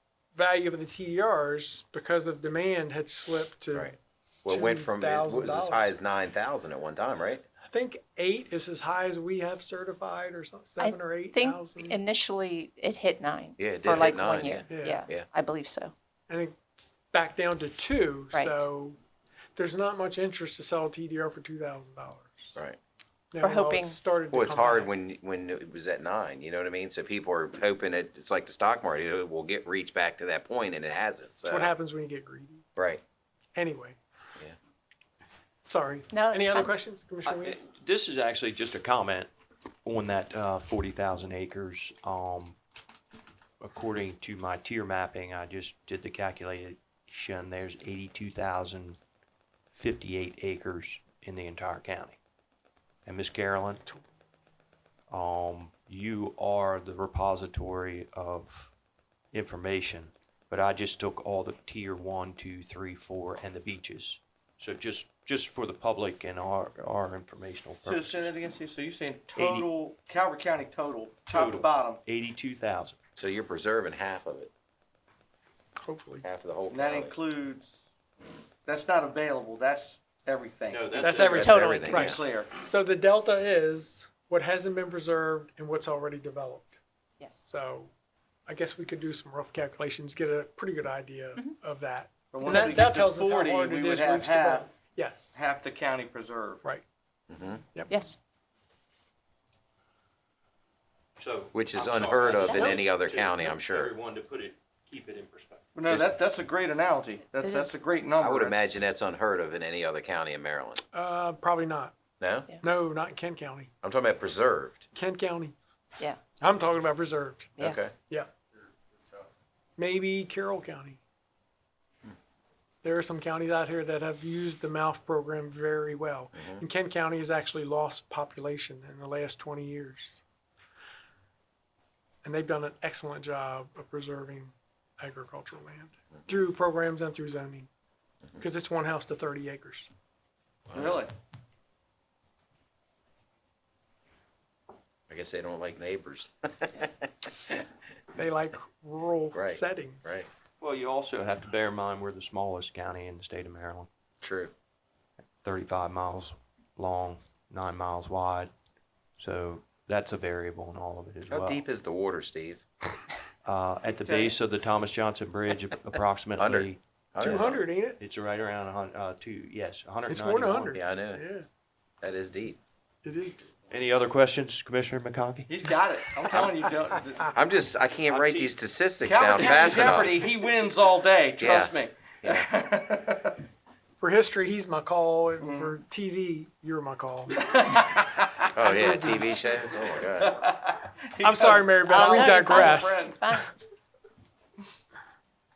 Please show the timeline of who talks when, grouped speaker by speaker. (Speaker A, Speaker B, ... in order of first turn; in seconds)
Speaker A: 0.3-4.0, 4.5-6.0, 7.7-12.0, 14.7-15.1, 16.3-19.0, 19.6-22.6, 23.3-24.9, 31.5-32.6, 33.6-34.0, 35.6-37.6, 75.8-76.2, 81.0-86.8, 87.4-87.9, 88.5-95.4, 110.9-112.0, 112.6-113.7, 114.9-115.5, 116.4-118.3, 119.8-121.0, 122.8-130.2, 132.2-137.7, 138.4-139.9, 148.2-150.3, 167.2-168.0, 170.1-171.5, 173.0-173.5, 184.0-187.3, 188.6-189.5, 191.2-193.2
Speaker B: 3.7-7.4, 13.6-15.3, 24.3-31.7, 32.8-33.0, 73.2-74.5, 76.2-77.2, 81.3-82.2, 97.3-97.6, 101.5-103.9, 108.2-110.8, 112.2-112.5, 113.8-114.9, 117.6-117.9, 126.4-126.6, 140.7-141.0, 145.1-146.9, 149.3-150.3, 154.2-154.5, 161.3-162.6, 166.4-167.6, 170.7-171.2, 172.0-172.6, 177.3-180.2, 181.4-182.5, 188.5-190.4
Speaker C: 10.8-15.9, 18.3-18.7, 23.4-24.0, 36.1-36.7, 81.4-82.2, 97.9-98.2, 102.4-102.8, 107.4-107.8, 117.6-117.9, 191.8-193.5
Speaker D: 37.3-39.3, 39.9-42.6, 43.6-49.0, 49.7-52.2, 53.0-53.8, 55.1-58.7, 59.3-68.3, 69.3-69.7, 71.3-73.0, 80.7-81.6, 101.2-105.8, 150.6-153.9, 155.4-158.5, 159.2-161.6, 163.4-167.5, 168.0-170.8, 173.7-175.5, 178.1-178.5, 179.4-180.1
Speaker E: 67.8-72.0, 76.7-77.8, 78.7-82.5, 92.3-94.7, 95.3-96.6, 105.8-108.8, 140.7-141.1, 163.8-164.4, 175.5-177.3, 179.0-183.4, 185.4-185.8, 187.5-188.4, 190.2-193.2